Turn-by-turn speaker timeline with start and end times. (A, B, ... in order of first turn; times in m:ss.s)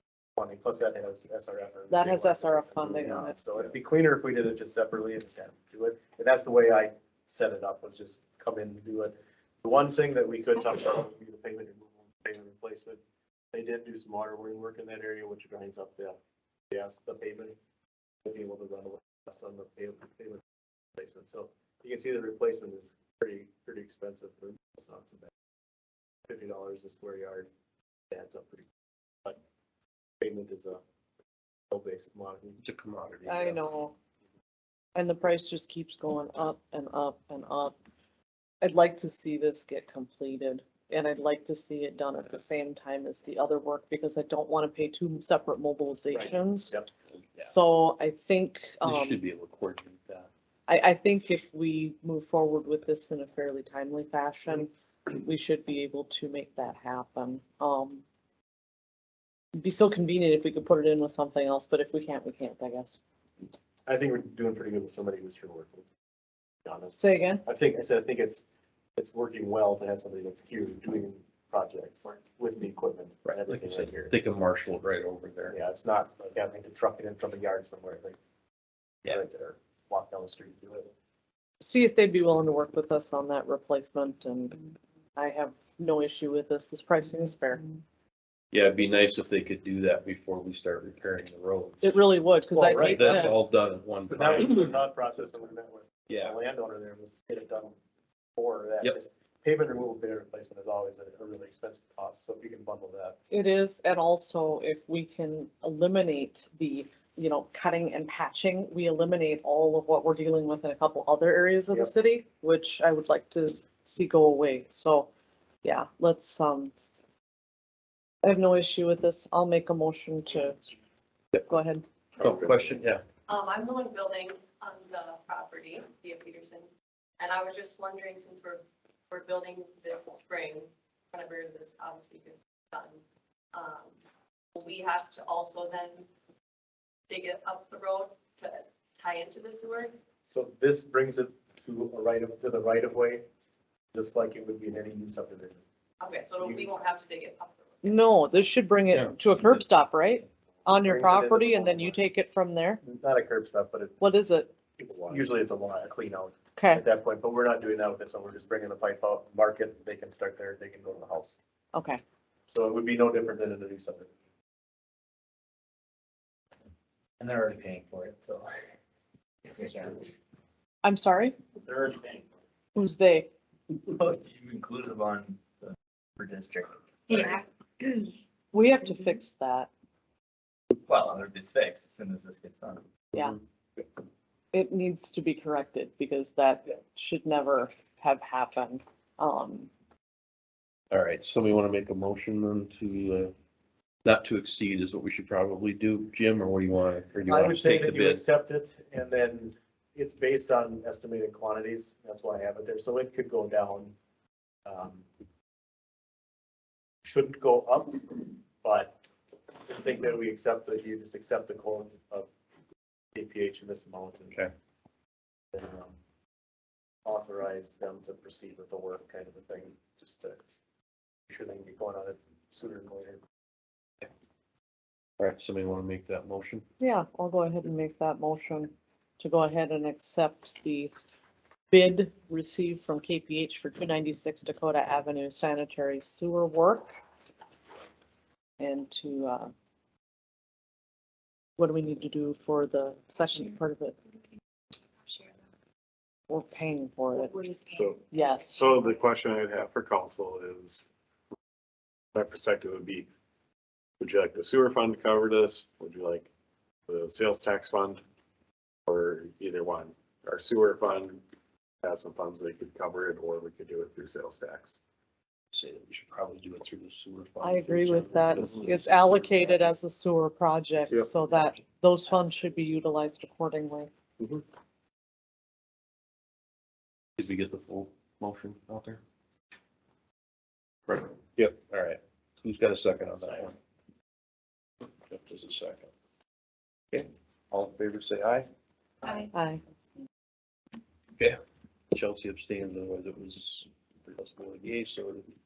0:00.4-0:13.0 A
0:01.9-0:03.4 B
0:13.5-0:16.2 A
0:16.7-0:17.6 A
0:18.2-0:20.4 A
0:21.0-0:25.3 A
0:26.3-0:27.5 A
0:28.1-0:28.7 A
0:30.2-0:30.8 A
0:31.7-0:32.6 A
0:32.6-0:33.6 C
0:33.3-0:34.0 B
0:35.0-0:37.7 B
0:38.6-0:46.8 B
0:46.1-0:46.9 A
0:47.4-0:49.2 B
0:48.8-0:50.3 C
0:50.7-0:58.0 B
0:59.6-1:03.0 B
1:03.9-1:05.9 A
1:06.6-1:08.4 A
1:07.0-1:07.4 B
1:09.0-1:14.1 A
1:13.3-1:15.6 C
1:15.5-1:18.2 A
1:19.0-1:20.9 A
1:21.6-1:27.7 B
1:28.5-1:31.8 C
1:31.8-1:33.4 B
1:32.5-1:33.4 A
1:32.7-1:34.8 C
1:34.1-1:37.8 A
1:36.1-1:36.4 C
1:38.4-1:43.2 A
1:43.3-1:55.1 B
1:55.6-1:56.7 B
1:58.2-2:00.7 B
2:01.4-2:01.8 B
2:02.2-2:02.6 A
2:02.2-2:03.0 C
2:03.3-2:06.7 D
2:07.2-2:13.0 D
2:13.5-2:14.0 D
2:14.6-2:16.1 D
2:17.1-2:20.0 D
2:20.2-2:23.3 A
2:23.9-2:25.6 A
2:26.0-2:28.0 D
2:26.3-2:26.7 A
2:27.8-2:32.8 B
2:30.8-2:32.0 A
2:32.8-2:34.0 A
2:34.0-2:35.0 B
2:34.8-2:41.4 A
2:36.6-2:36.8 B
2:41.7-2:42.0 B
2:42.5-2:44.1 A
2:47.2-2:48.5 E
2:49.4-2:50.1 E
2:50.8-2:51.4 B
2:51.7-2:52.2 E
2:52.8-2:53.3 B
2:53.9-2:57.2 E
2:58.5-2:59.7 B
3:00.7-3:02.8 E
3:03.1-3:03.4 B
3:04.5-3:09.7 B
3:10.9-3:13.3 C
3:14.0-3:18.2 C
3:17.3-3:24.0 A
3:24.7-3:25.1 A
3:27.0-3:29.0 A
3:29.7-3:32.3 A
3:33.2-3:34.4 A
3:35.5-3:36.0 A
3:37.0-3:40.4 A
3:41.3-3:43.2 A
3:45.2-3:46.6 C
3:46.8-3:50.9 B
3:51.7-3:57.0 B
3:58.6-3:59.5 B
4:01.6-4:04.0 B
4:06.3-4:07.6 B
4:07.6-4:10.9 F
4:08.1-4:08.8 B
4:12.1-4:13.1 F
4:14.0-4:16.3 F
4:16.9-4:18.0 F
4:18.9-4:21.2 F
4:21.8-4:24.8 F
4:25.5-4:29.5 C
4:27.4-4:33.9 B
4:37.2-4:39.0 C
4:40.9-4:43.6 C
4:45.0-4:45.9 C
4:46.9-4:48.5 C
4:49.0-4:49.6 B
4:51.9-4:55.3 C